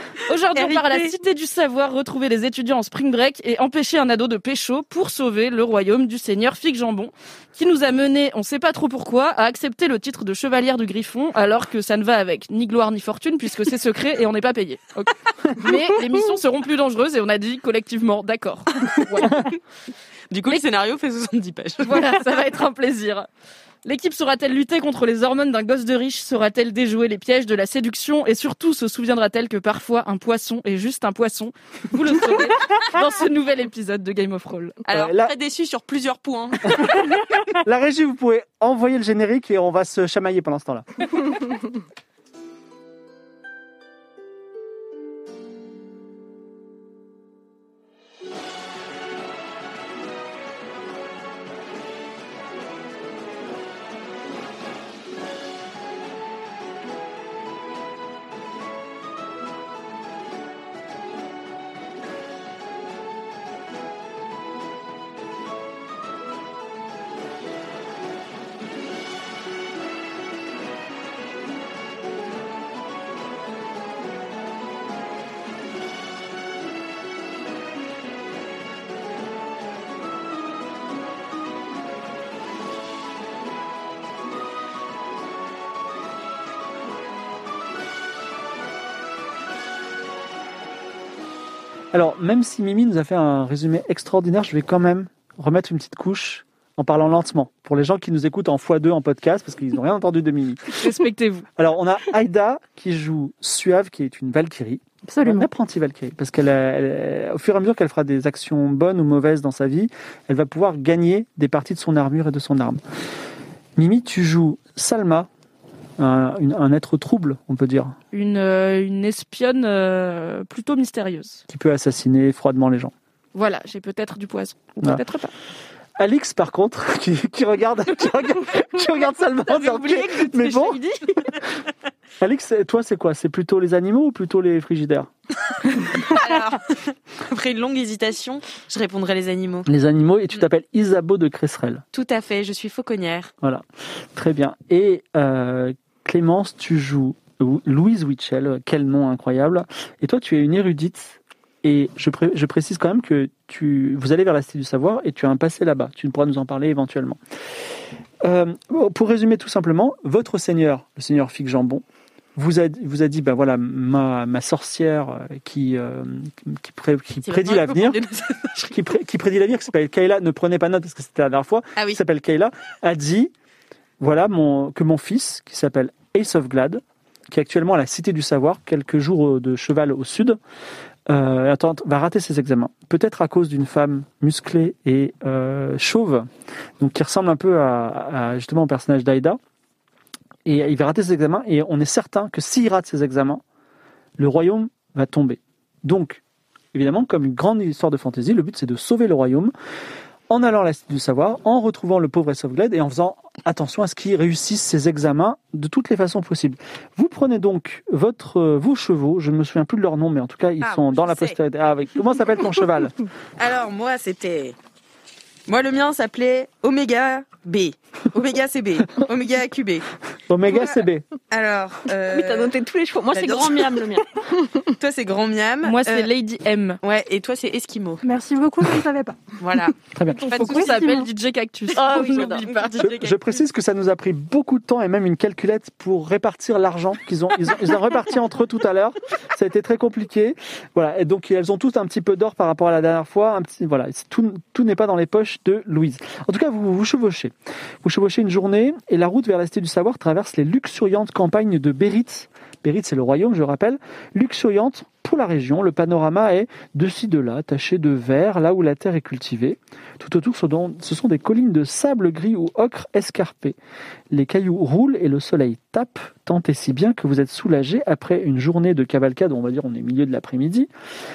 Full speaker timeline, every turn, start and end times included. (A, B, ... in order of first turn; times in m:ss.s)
0:00.2-0:19.5 A
0:00.5-0:01.2 B
0:20.3-0:22.1 B
0:21.8-0:23.3 A
0:23.8-0:34.8 A
0:34.8-0:37.0 B
0:34.9-0:35.3 C
0:37.5-0:41.4 C
1:31.9-1:40.8 C
1:40.8-1:41.4 A
1:41.6-1:52.8 C
1:45.0-1:45.5 D
1:53.8-1:55.3 C
1:56.0-1:57.9 C
1:58.1-2:01.4 A
2:01.5-2:02.9 C
2:03.3-2:05.3 A
2:06.0-2:10.8 C
2:09.1-2:11.0 A
2:12.2-2:15.1 C
2:15.9-2:19.7 B
2:19.7-2:21.8 C
2:21.9-2:23.3 B
2:23.4-2:37.2 C
2:38.2-2:41.8 C
2:42.4-2:48.0 C
2:47.2-2:48.8 B
2:48.6-2:53.3 C
2:51.8-2:52.0 B
2:54.0-3:00.4 C
3:01.1-3:06.3 C
3:06.8-3:09.4 C
3:10.4-3:13.4 C
3:14.2-3:16.2 C
3:16.7-3:19.5 C
3:20.3-3:32.9 C
3:30.6-3:31.4 B
3:33.4-3:34.6 B
3:35.4-3:39.9 B
3:40.3-3:41.0 C
3:40.5-3:42.5 B
3:42.1-3:44.7 E
3:43.1-3:43.9 B
3:44.8-3:46.1 B
3:45.6-3:46.8 A
3:46.8-3:48.0 B
3:48.0-3:49.3 D
3:49.4-3:49.8 B
3:49.9-3:50.2 C
3:50.2-3:51.1 D
3:50.3-3:52.8 A
3:50.3-3:50.7 B
3:51.7-3:53.4 B
3:52.1-3:52.4 E
3:52.8-4:23.6 C
4:24.1-4:30.7 C